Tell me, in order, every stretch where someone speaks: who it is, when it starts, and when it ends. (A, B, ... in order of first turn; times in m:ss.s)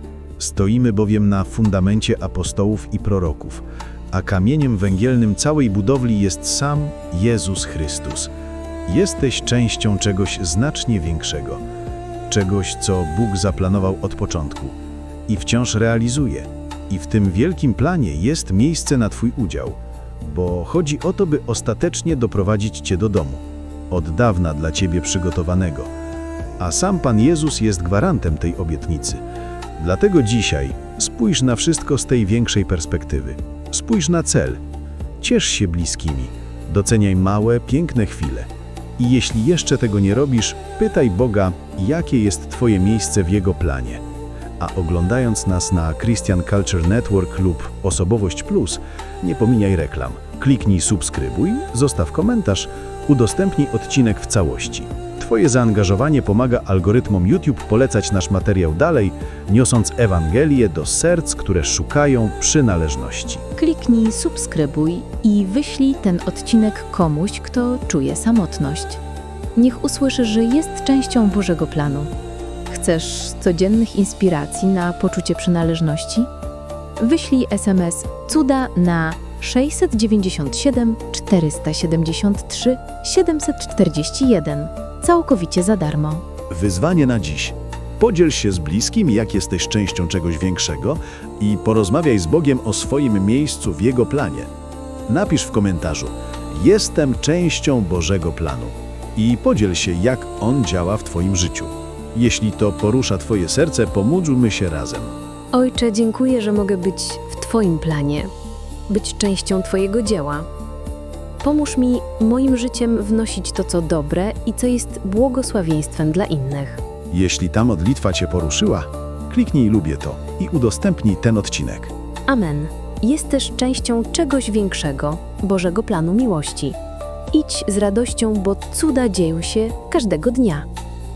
0:00.4-0:08.3 A
0:08.9-0:11.6 A
0:12.3-0:14.8 A
0:15.3-0:25.9 A
0:26.6-0:29.2 A
0:29.8-0:34.6 A
0:35.2-0:44.0 A
0:44.6-1:03.4 A
1:03.6-1:09.0 B
1:09.6-1:12.1 B
1:12.7-1:16.3 B
1:17.0-1:26.2 B
1:26.5-1:34.5 A
1:35.1-1:45.1 A
1:45.5-1:48.3 B
1:48.9-1:50.5 B
1:51.4-1:56.8 B
1:57.1-2:01.9 A
2:02.3-2:06.8 B
2:07.3-2:10.7 B